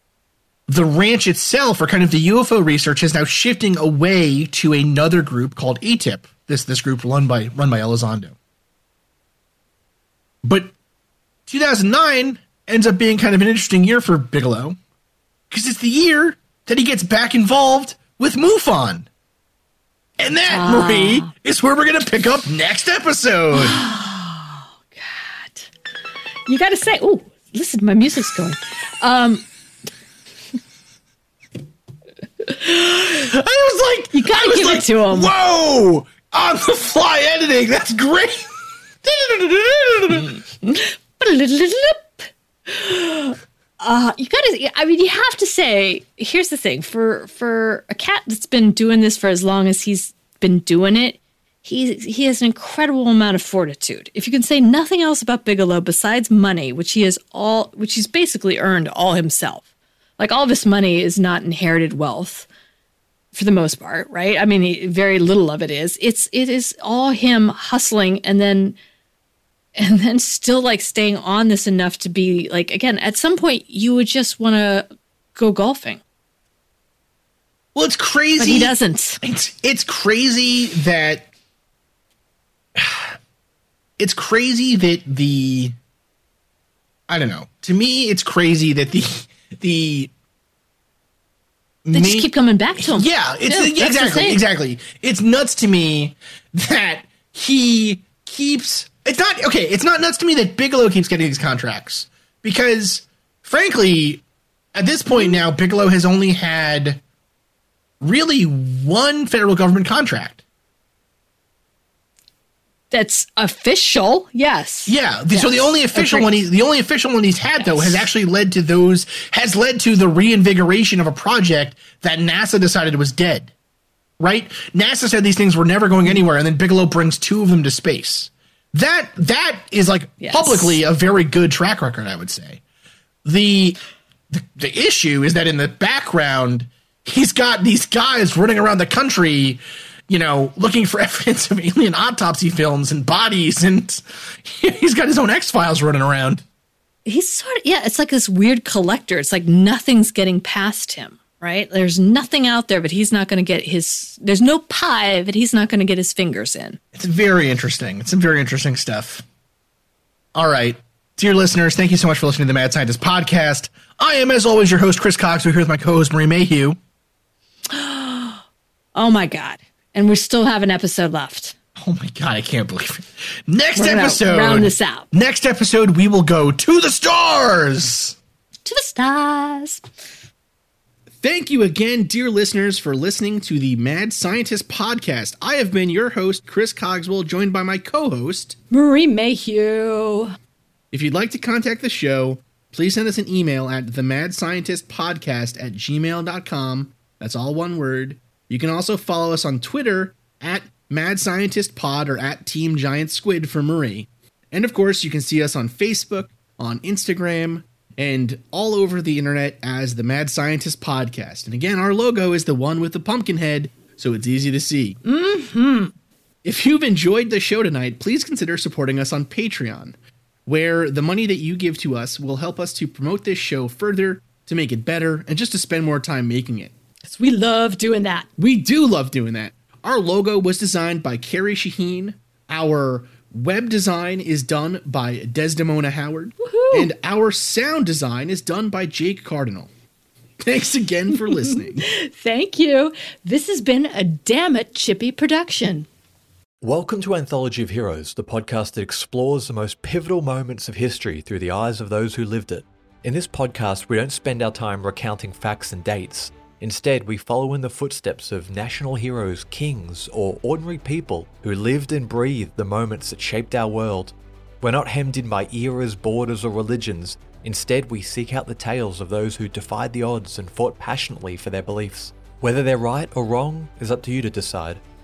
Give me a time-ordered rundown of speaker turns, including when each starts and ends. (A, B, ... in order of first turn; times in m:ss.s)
0:00.7-0:08.4 A
0:10.4-0:10.7 A
0:11.5-0:14.8 A
0:15.5-0:19.1 A
0:20.2-0:23.8 A
0:20.5-0:21.3 B
0:23.5-0:25.7 B
0:26.5-0:29.4 B
0:32.4-0:33.3 B
0:33.2-0:38.5 A
0:34.1-0:35.3 B
0:39.0-0:40.4 A
0:40.2-0:59.6 B
1:00.2-1:02.5 B
1:03.3-1:08.8 B
1:09.8-1:16.0 B
1:17.8-1:21.3 A
1:18.4-1:19.2 B
1:22.8-1:23.1 A
1:24.0-1:25.8 A
1:27.1-1:30.1 A
1:31.8-1:44.2 A
1:31.9-1:34.4 B
1:44.8-1:47.0 A
1:48.0-1:50.4 A
1:52.9-1:56.3 B
1:54.9-2:03.5 A
1:57.6-1:58.0 B
2:04.2-2:12.6 A
2:10.2-2:10.8 B
2:13.2-2:13.8 A
2:14.3-2:26.4 A
2:27.0-2:36.8 B
2:36.9-2:39.2 A
2:40.4-2:46.8 A
2:47.7-2:48.4 B
2:49.0-2:51.6 B
2:51.8-2:58.2 A
2:53.8-2:55.1 B
2:58.6-2:59.9 B
3:01.2-3:08.6 A
3:08.7-3:10.3 B
3:10.9-3:35.1 A
3:35.1-3:35.9 B
3:36.4-3:40.0 A
3:40.5-3:46.7 A
3:47.0-3:48.3 B
3:48.4-3:59.7 A
3:56.4-3:56.9 B
4:00.4-4:01.9 A
4:01.3-4:05.9 B
4:06.6-4:34.8 C